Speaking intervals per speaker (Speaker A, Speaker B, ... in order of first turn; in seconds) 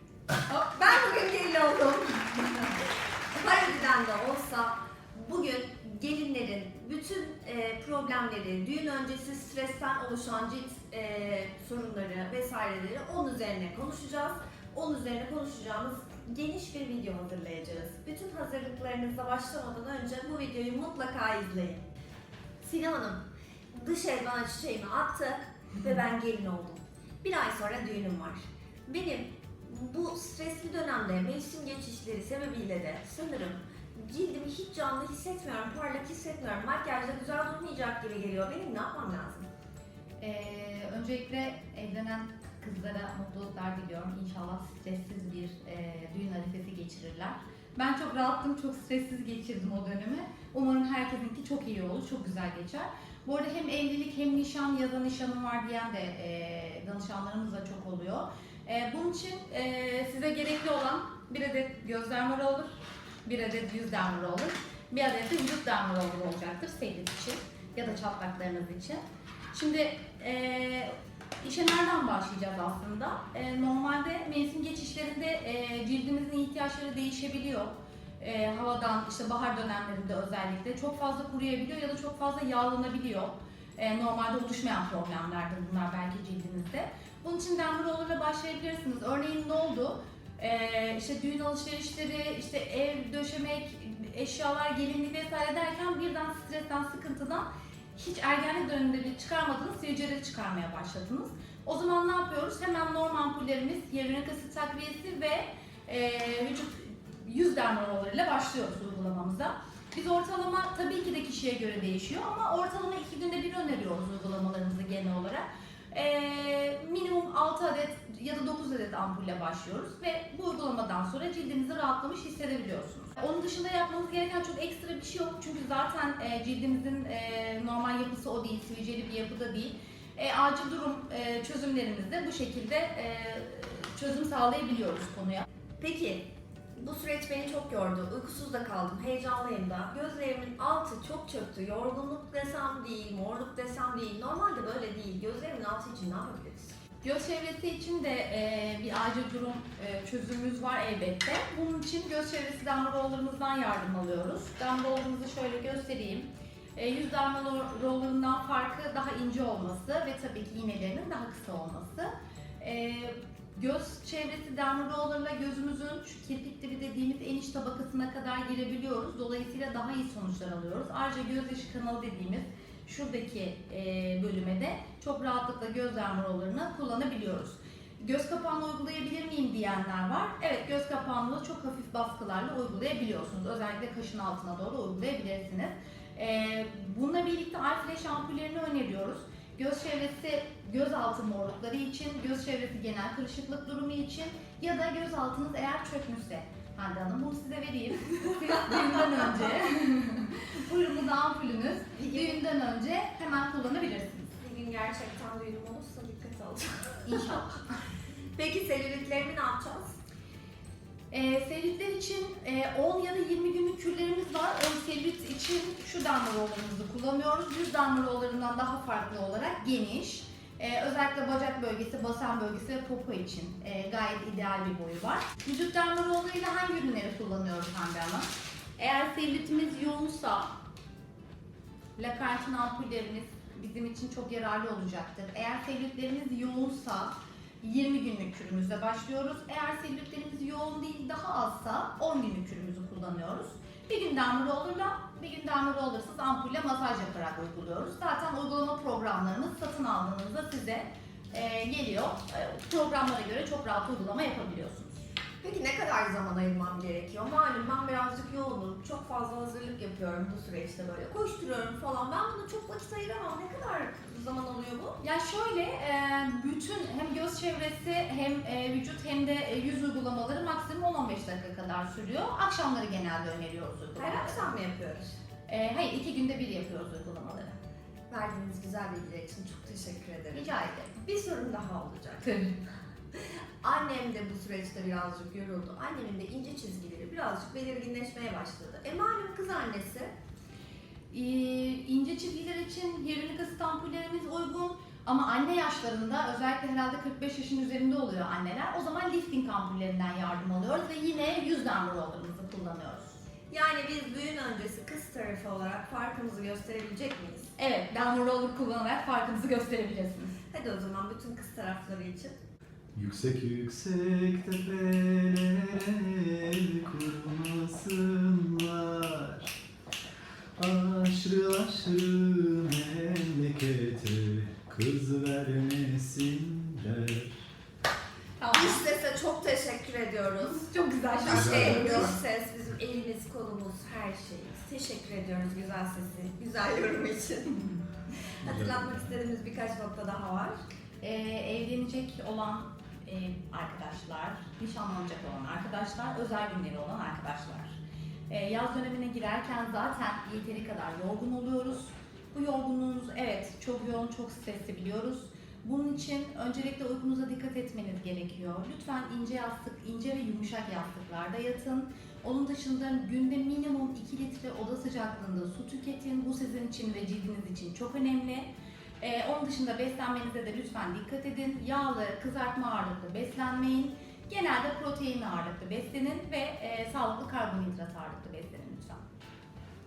Speaker A: 0.5-21.8, 22.6-23.2, 23.7-39.5, 135.8-146.8, 202.0-202.4, 204.4-207.4, 208.3-209.9, 255.4-265.0, 273.9-275.2, 278.1-282.4, 283.6-290.1, 303.5-307.5, 310.5-312.4, 328.5-330.7, 331.2-337.6, 338.4-340.6
Speaker B: 40.2-62.7, 63.2-69.0, 69.5-135.4, 147.0-204.3, 207.1-207.6, 211.1-228.3, 228.8-230.5, 232.0-254.9, 265.0-274.5, 275.5-277.5, 280.3-280.9, 282.2-282.5, 291.1-303.2, 307.6-310.4, 328.4-328.8, 330.4-332.1, 341.0-347.7, 348.3-368.5, 369.0-379.0
Speaker C: 312.9-319.5, 320.6-327.4, 331.2-332.1, 338.4-339.1